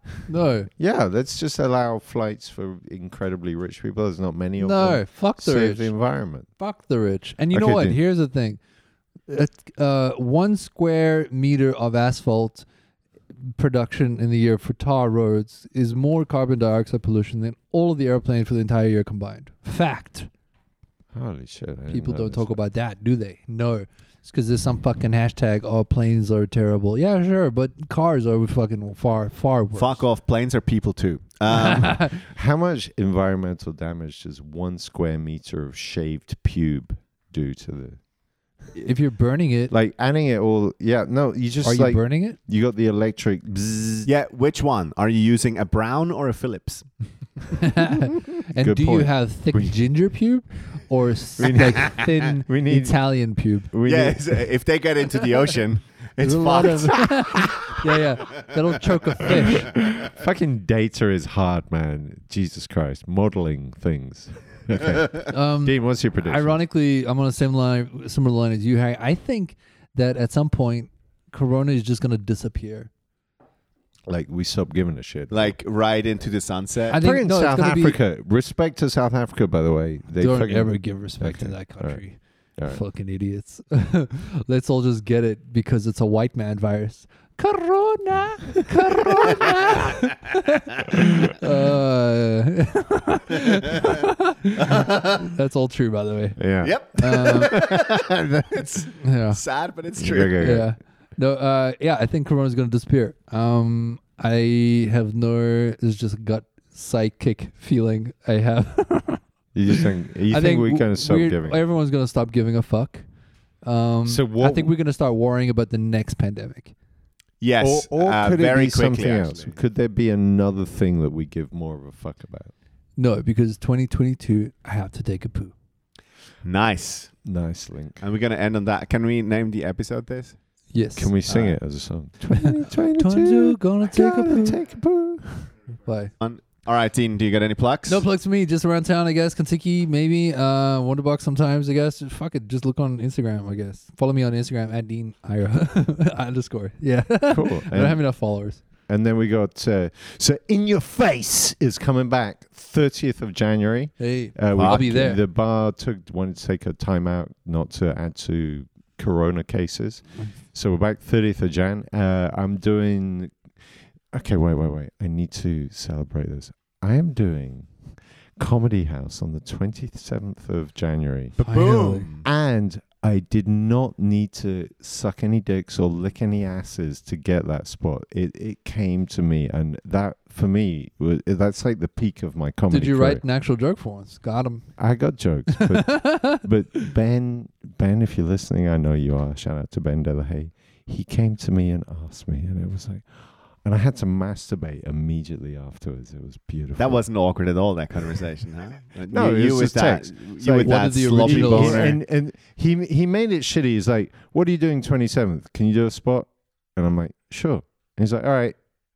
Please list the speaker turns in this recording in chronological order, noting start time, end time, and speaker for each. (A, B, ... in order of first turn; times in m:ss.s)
0:00.3-0:00.7 A
0:00.8-0:06.5 B
0:04.6-0:05.9 A
0:06.6-0:08.6 A
0:07.5-0:08.0 B
0:09.3-0:12.7 A
0:13.4-0:20.3 A
0:21.1-0:22.6 B
0:21.9-0:30.0 A
0:29.8-0:32.0 C
0:31.5-0:32.1 A
0:32.0-0:38.0 B
0:38.7-0:39.7 A
0:39.7-0:44.1 B
0:41.6-0:42.4 A
0:44.0-0:46.9 C
0:47.6-0:53.7 A
0:48.3-0:49.8 B
0:51.4-0:53.0 B
0:53.7-0:54.4 B
0:53.9-0:57.1 C
0:56.2-0:59.7 A
0:57.3-0:57.8 B
0:59.2-1:06.6 B
1:05.3-1:12.9 A
1:14.1-1:15.6 B
1:15.3-1:17.0 C
1:16.9-1:18.0 A
1:16.9-1:22.0 B
1:20.2-1:36.4 A
1:34.6-1:35.3 C
1:36.4-1:38.7 B
1:36.6-1:40.4 C
1:37.0-1:37.5 A
1:39.0-1:39.4 A
1:40.0-1:40.7 B
1:40.4-1:49.2 A
1:49.6-1:51.6 B
1:49.8-1:53.1 A
1:53.6-1:56.7 A
1:54.1-1:54.7 B
1:57.4-1:59.6 C
1:57.6-2:02.5 B
2:03.0-2:05.5 A
2:06.4-2:07.1 C
2:07.2-2:08.0 B
2:08.0-2:10.4 C
2:10.7-2:11.1 A
2:11.0-2:15.5 B
2:11.3-2:11.6 C
2:12.3-2:14.6 A
2:15.9-2:16.1 A
2:16.2-2:18.0 C
2:17.9-2:28.6 A
2:27.3-2:28.0 B
2:28.9-2:43.3 B
2:34.0-2:35.2 A
2:34.6-2:34.8 C
2:44.1-2:47.7 B
2:48.4-2:51.4 B
2:51.4-2:52.3 C
2:51.4-2:52.1 A
2:52.2-3:03.2 B
3:02.7-3:04.8 A
3:04.8-3:13.1 B
3:05.5-3:06.4 A
3:13.6-3:17.0 B
3:16.8-3:22.0 C
3:19.1-3:28.6 B
3:20.6-3:22.0 A